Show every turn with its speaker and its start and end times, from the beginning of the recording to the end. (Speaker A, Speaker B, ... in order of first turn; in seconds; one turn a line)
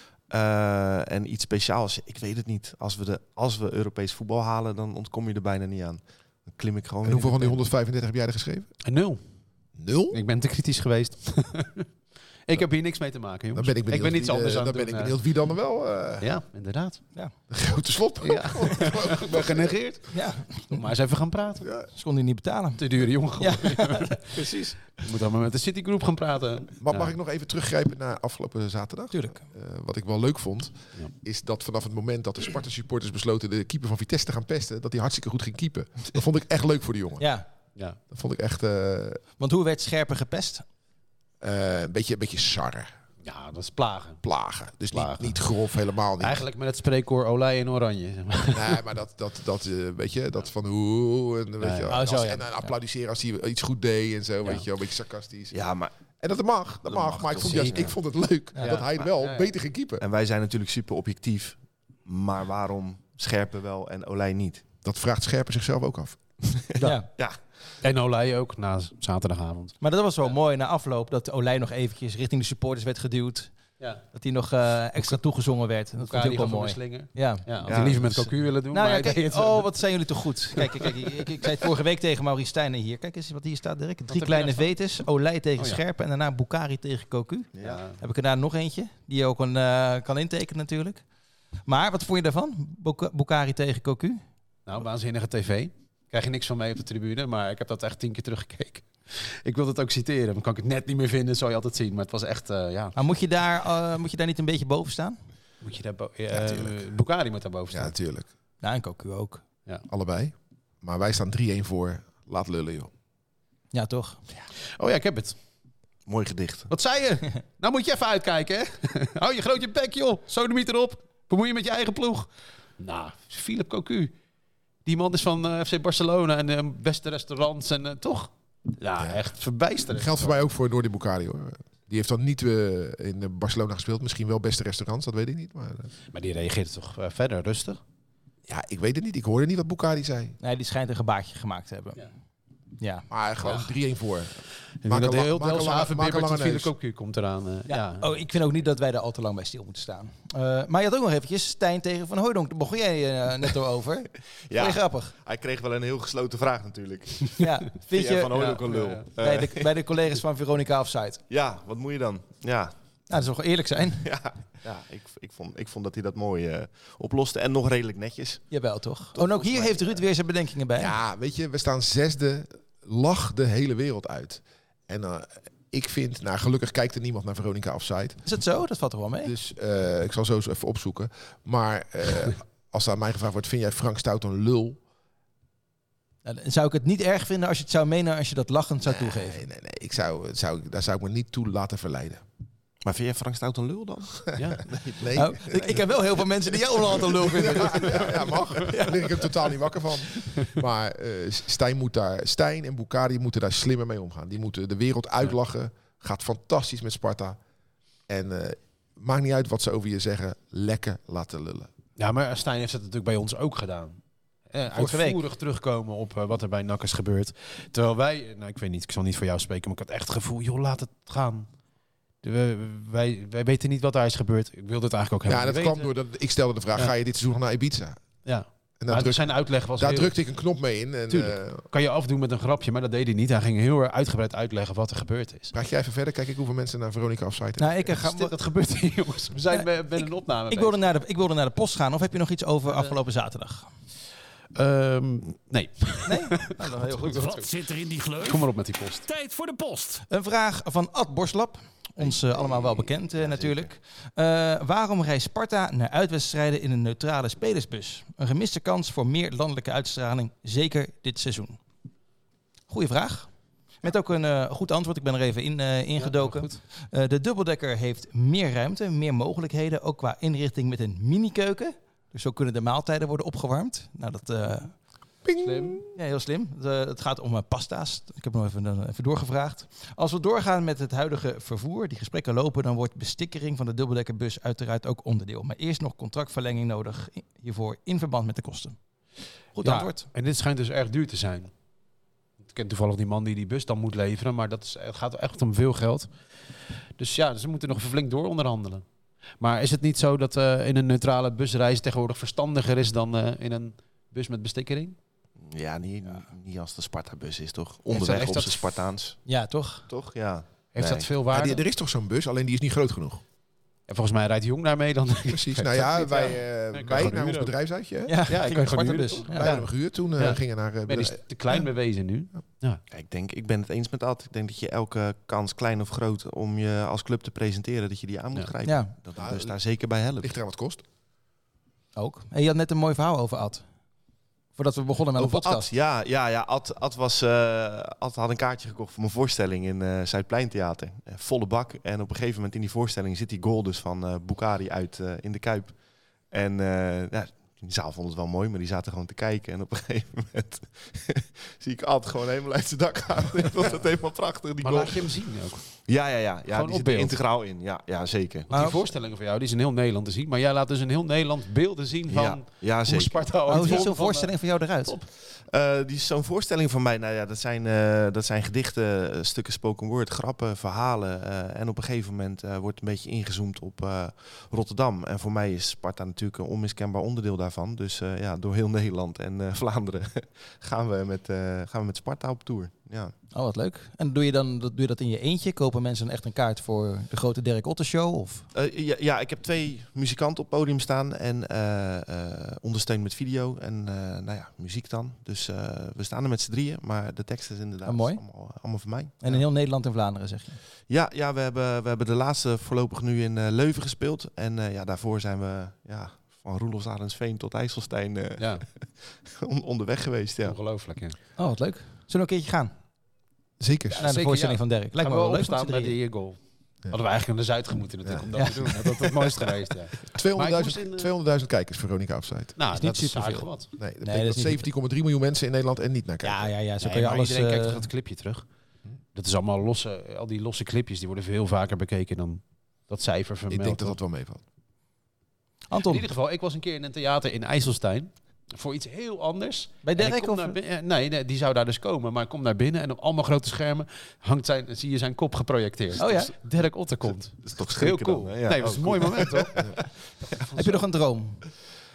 Speaker A: 0.3-7.6
Speaker B: 7.0-8.7
Speaker C: 8.8-9.2
Speaker B: 9.8-10.2
Speaker C: 10.1-11.9
Speaker C: 12.5-15.2
Speaker B: 13.5-16.3
Speaker C: 16.2-17.0
Speaker B: 17.5-19.8
Speaker C: 18.2-20.1
Speaker D: 20.1-20.9
Speaker C: 20.7-21.7
Speaker B: 21.6-21.9
Speaker D: 21.9-22.8
Speaker C: 22.8-24.3
Speaker D: 23.4-24.5
Speaker C: 24.9-27.1
Speaker B: 26.8-37.3
Speaker D: 29.1-29.4
Speaker D: 37.2-37.5
Speaker B: 38.1-39.2
Speaker D: 39.4-40.6
Speaker B: 41.4-42.9
Speaker C: 43.2-44.2
Speaker B: 44.2-46.4
Speaker C: 44.9-45.4
Speaker C: 46.2-48.8
Speaker B: 48.5-55.6
Speaker C: 51.6-52.0
Speaker D: 51.9-52.7
Speaker A: 55.5-55.9
Speaker B: 56.2-60.0
Speaker A: 56.9-57.9
Speaker C: 57.5-57.9
Speaker D: 58.5-58.8
Speaker C: 58.6-59.5
Speaker A: 60.0-64.6
Speaker B: 64.8-66.2
Speaker A: 66.5-67.4
Speaker D: 66.8-67.1
Speaker C: 67.8-69.8
Speaker D: 69.8-73.5
Speaker D: 74.1-77.5
Speaker C: 76.0-79.7
Speaker A: 77.7-78.3
Speaker D: 78.7-91.0
Speaker C: 80.6-80.9
Speaker C: 84.1-84.7
Speaker A: 87.5-87.8
Speaker C: 87.6-88.0
Speaker D: 91.7-94.2
Speaker C: 94.7-103.0
Speaker D: 103.0-105.2
Speaker C: 105.6-108.0
Speaker B: 106.3-106.8
Speaker B: 107.7-108.3
Speaker D: 108.6-109.4
Speaker B: 109.9-112.9
Speaker D: 113.7-114.2
Speaker C: 114.8-115.4
Speaker A: 116.1-116.7
Speaker C: 116.7-124.1
Speaker C: 124.8-130.4
Speaker B: 129.9-135.9
Speaker C: 136.1-137.8
Speaker B: 138.5-140.4
Speaker D: 140.4-142.1
Speaker D: 142.8-143.1
Speaker B: 143.1-146.7
Speaker C: 144.8-148.1
Speaker D: 147.7-155.1
Speaker A: 154.5-159.7
Speaker D: 157.4-158.7
Speaker C: 158.3-159.1
Speaker D: 159.2-161.2
Speaker A: 161.3-162.8
Speaker D: 163.1-164.1
Speaker A: 164.0-168.5
Speaker D: 168.5-170.9
Speaker A: 169.1-170.0
Speaker B: 170.8-178.2
Speaker D: 178.2-179.3
Speaker B: 179.2-184.8
Speaker D: 186.2-189.4
Speaker B: 188.8-192.2
Speaker A: 192.8-194.9
Speaker B: 194.7-196.0
Speaker D: 195.1-198.9
Speaker B: 196.8-207.4
Speaker B: 208.1-211.7
Speaker C: 212.0-214.0
Speaker C: 214.5-221.5
Speaker D: 214.7-215.2
Speaker C: 222.2-225.9
Speaker B: 225.2-228.0
Speaker C: 228.2-230.2
Speaker B: 228.8-231.6
Speaker C: 231.1-235.5
Speaker B: 235.5-237.9
Speaker D: 237.6-238.3
Speaker C: 238.0-240.8
Speaker D: 239.5-243.7
Speaker C: 242.7-242.9
Speaker C: 244.6-247.5
Speaker D: 246.1-247.4
Speaker E: 247.1-248.5
Speaker C: 248.2-249.1
Speaker E: 249.0-250.0
Speaker D: 250.1-261.6
Speaker A: 252.0-253.7
Speaker D: 262.7-263.3
Speaker D: 263.8-274.8
Speaker C: 266.0-266.6
Speaker B: 275.2-275.9
Speaker C: 275.4-275.8
Speaker D: 275.9-288.8
Speaker D: 289.6-290.1
Speaker C: 289.6-291.5
Speaker C: 292.4-296.1
Speaker C: 297.0-298.8
Speaker C: 299.4-305.0
Speaker A: 305.5-309.2
Speaker C: 307.9-308.8
Speaker D: 309.3-309.9
Speaker A: 309.9-311.1
Speaker C: 310.8-311.6
Speaker B: 311.3-313.2
Speaker C: 313.9-317.5
Speaker B: 315.3-318.6
Speaker D: 318.1-319.6
Speaker C: 318.3-322.8
Speaker B: 319.3-321.6
Speaker A: 322.9-330.3
Speaker D: 328.6-328.9
Speaker B: 329.2-329.6
Speaker B: 330.2-330.8
Speaker D: 332.0-333.6
Speaker D: 334.6-335.7
Speaker A: 335.2-345.8
Speaker A: 346.3-358.5
Speaker C: 354.6-355.7
Speaker C: 356.5-357.2
Speaker C: 358.5-365.1
Speaker D: 358.5-358.9
Speaker A: 362.1-363.9
Speaker D: 363.5-364.9
Speaker A: 365.3-383.1
Speaker D: 383.3-388.5
Speaker A: 388.5-399.2
Speaker D: 397.9-398.2
Speaker D: 399.2-400.6
Speaker A: 400.9-410.6
Speaker C: 408.4-408.6
Speaker C: 410.4-411.2
Speaker D: 411.4-412.7
Speaker B: 413.6-414.0
Speaker C: 413.9-416.4
Speaker D: 414.0-416.0
Speaker C: 416.9-421.1
Speaker B: 418.1-419.5
Speaker D: 418.4-418.7
Speaker B: 420.1-422.6
Speaker C: 422.6-423.7
Speaker D: 422.7-424.7
Speaker B: 423.8-426.5
Speaker D: 426.2-427.9
Speaker C: 426.8-428.5
Speaker C: 429.1-434.0
Speaker B: 433.5-434.4
Speaker D: 435.7-436.1
Speaker C: 435.9-449.6
Speaker D: 439.8-440.6
Speaker D: 446.0-446.3
Speaker A: 447.4-450.6
Speaker C: 450.4-450.7
Speaker D: 450.6-451.4